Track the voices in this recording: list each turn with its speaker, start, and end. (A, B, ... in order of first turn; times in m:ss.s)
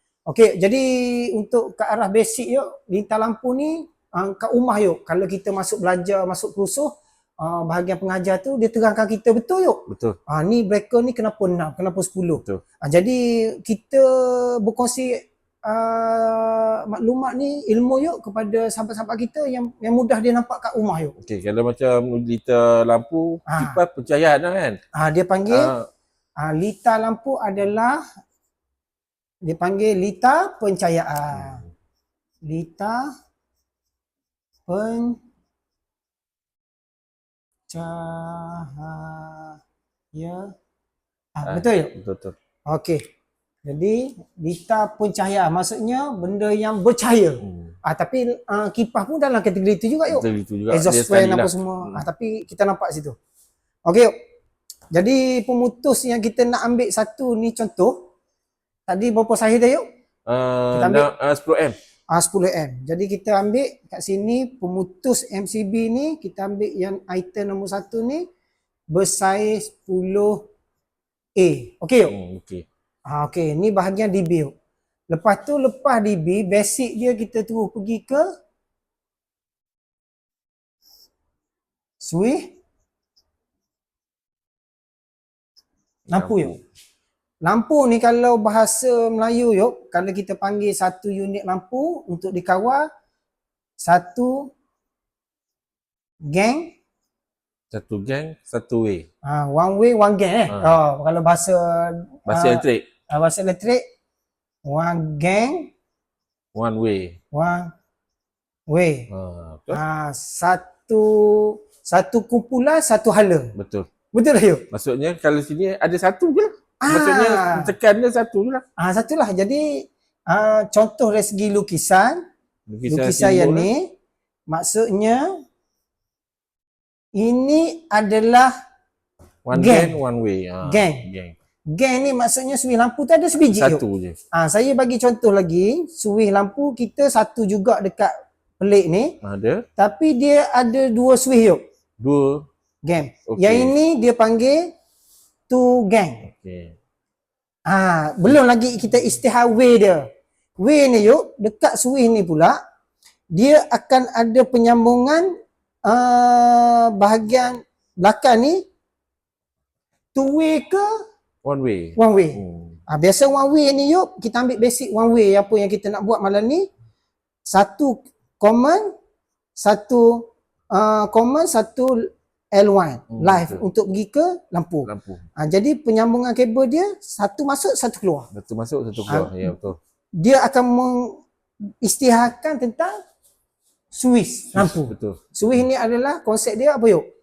0:00.3-0:21.2 A
0:09.9-0:10.2 B
0:21.2-0:24.8 B
0:23.5-0:23.8 A
0:24.9-0:25.7 A
0:25.5-0:25.9 B
0:26.4-0:28.0 A
0:29.4-0:31.6 A
0:31.3-0:31.6 B
0:32.4-0:33.1 A
0:34.7-0:35.2 A
0:37.7-0:39.6 A
0:40.1-0:40.5 A
0:41.4-0:41.9 A
0:41.4-0:42.3 B
0:42.7-0:43.0 A
0:43.6-0:53.2 A
0:47.4-0:47.7 B
0:50.1-0:52.0 B
0:53.8-0:54.1 A
0:54.9-0:58.1 A
0:58.9-0:59.8 A
1:00.3-1:01.7 B
1:00.7-1:01.1 A
1:02.1-1:08.2 A
1:08.9-1:10.5 A
1:11.4-1:12.1 A
1:12.1-1:12.6 B
1:13.1-1:14.5 A
1:15.1-1:18.2 A
1:22.0-1:22.5 A
1:26.1-1:26.6 B
1:26.1-1:26.5 A
1:27.4-1:32.8 A
1:33.8-1:34.5 A
1:36.3-1:36.7 A
1:37.7-1:39.0 B
1:39.2-1:43.8 A
1:40.5-1:40.7 B
1:42.3-1:42.8 B
1:44.6-1:45.7 A
1:46.5-1:47.2 B
1:47.3-1:47.7 A
1:48.7-1:49.1 A
1:49.1-1:49.8 B
1:49.7-1:53.5 A
1:53.5-1:53.9 B
1:54.1-1:54.6 A
1:54.7-1:58.6 B
1:56.8-1:57.7 A
1:58.8-2:02.2 A
2:02.7-2:03.7 B
2:02.9-2:03.9 A
2:04.5-2:05.4 A
2:07.1-2:08.5 A
2:09.4-2:11.4 B
2:09.5-2:10.0 A
2:10.6-2:11.0 A
2:11.7-2:19.2 A
2:13.4-2:14.2 B
2:19.2-2:19.7 B
2:19.8-2:21.6 A
2:22.0-2:22.5 B
2:22.8-2:24.7 A
2:23.3-2:23.7 B
2:25.5-2:26.2 A
2:26.2-2:26.8 B
2:27.7-2:30.1 A
2:30.6-2:32.6 A
2:33.3-2:35.3 A
2:35.8-2:38.6 A
2:40.1-2:40.9 A
2:41.4-2:42.8 B
2:42.0-2:46.7 A
2:47.5-2:48.9 A
2:49.6-2:58.3 A
2:53.1-2:53.6 B
2:54.8-2:55.2 B
2:58.3-2:59.8 B
2:59.1-2:59.5 A
3:00.2-3:01.2 A
3:01.8-3:02.9 A
3:03.9-3:07.0 A
3:04.5-3:05.3 B